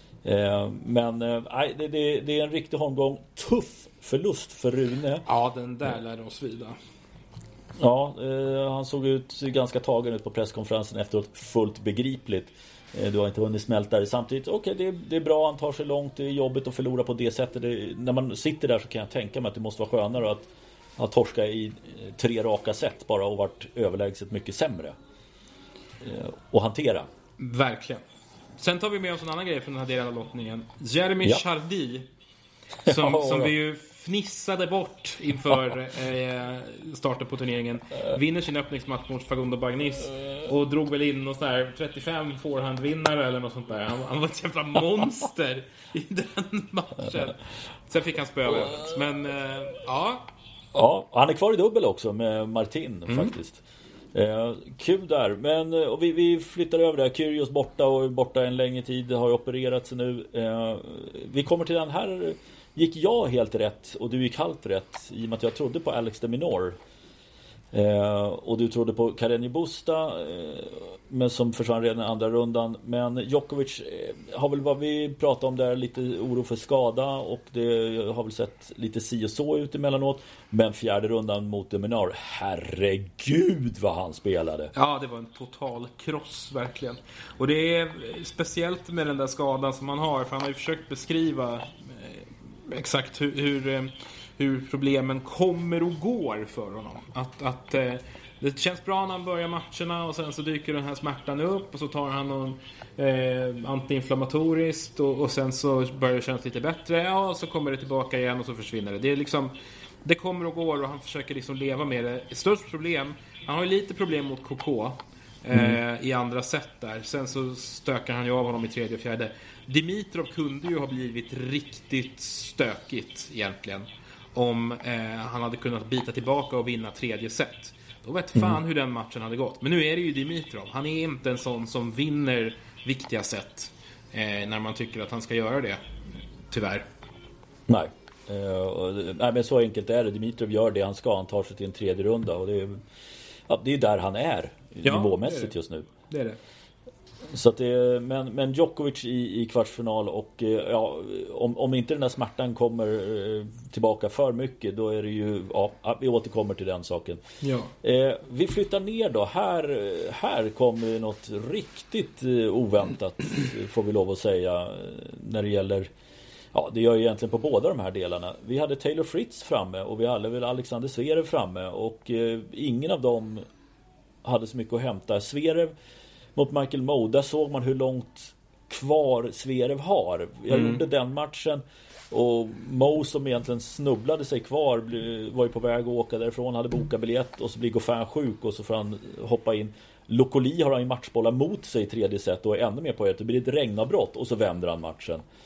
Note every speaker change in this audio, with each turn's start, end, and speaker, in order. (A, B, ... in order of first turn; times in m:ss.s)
0:00.2-0:05.2 A
0:05.3-0:06.8 B
0:07.8-0:24.9 A
0:26.0-0:27.1 A
0:27.4-0:28.0 B
0:28.6-0:32.1 B
0:32.8-0:50.3 B
0:32.9-0:33.5 A
0:50.7-0:53.6 A
0:53.1-0:53.3 B
0:54.1-1:06.8 A
1:07.7-1:24.7 A
1:24.7-1:49.5 B
1:50.0-2:15.8 B
1:55.5-1:55.8 A
2:16.5-2:16.9 B
2:17.7-2:22.8 A
2:23.5-2:25.9 A
2:24.8-2:25.6 B
2:26.1-2:26.4 B
2:27.3-2:37.2 A
2:37.4-2:37.7 B
2:37.8-2:45.9 A
2:46.5-2:53.4 A
2:54.2-2:55.7 A
2:56.4-3:15.2 A
3:00.5-3:00.8 B